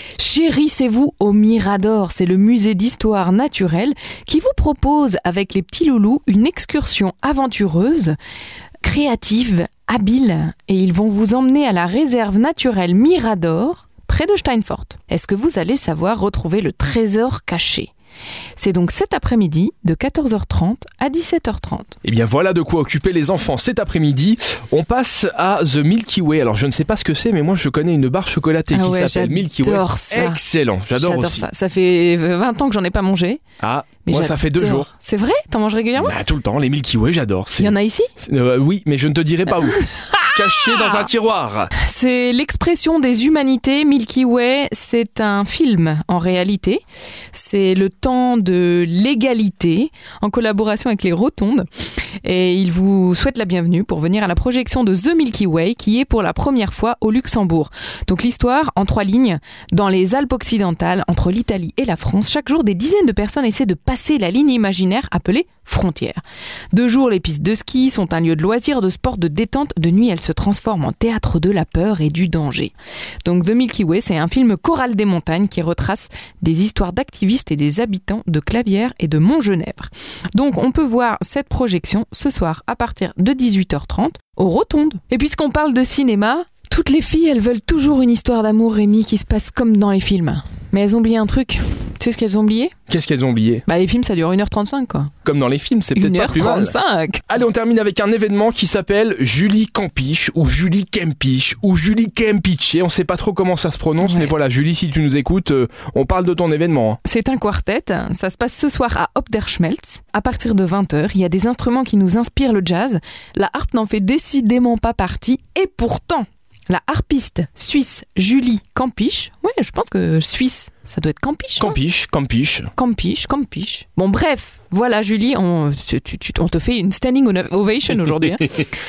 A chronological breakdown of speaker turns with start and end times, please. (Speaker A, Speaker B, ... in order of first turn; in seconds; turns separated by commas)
Speaker A: 0.2-8.2, Speaker A: 8.8-17.9, Speaker A: 18.6-22.0, Speaker B: 22.0-31.5, Speaker A: 28.7-30.4, Speaker A: 30.9-33.4, Speaker B: 33.6-34.9, Speaker A: 34.1-36.2, Speaker B: 36.0-41.7, Speaker A: 37.6-38.1, Speaker A: 39.8-41.1, Speaker A: 41.8-51.7, Speaker A: 52.2-92.7, Speaker B: 92.9-93.6, Speaker A: 93.7-95.1, Speaker B: 95.2-96.8, Speaker A: 95.9-97.3, Speaker B: 97.3-107.0, Speaker A: 104.0-104.3, Speaker A: 107.0-121.8, Speaker B: 121.6-122.7, Speaker A: 122.8-128.7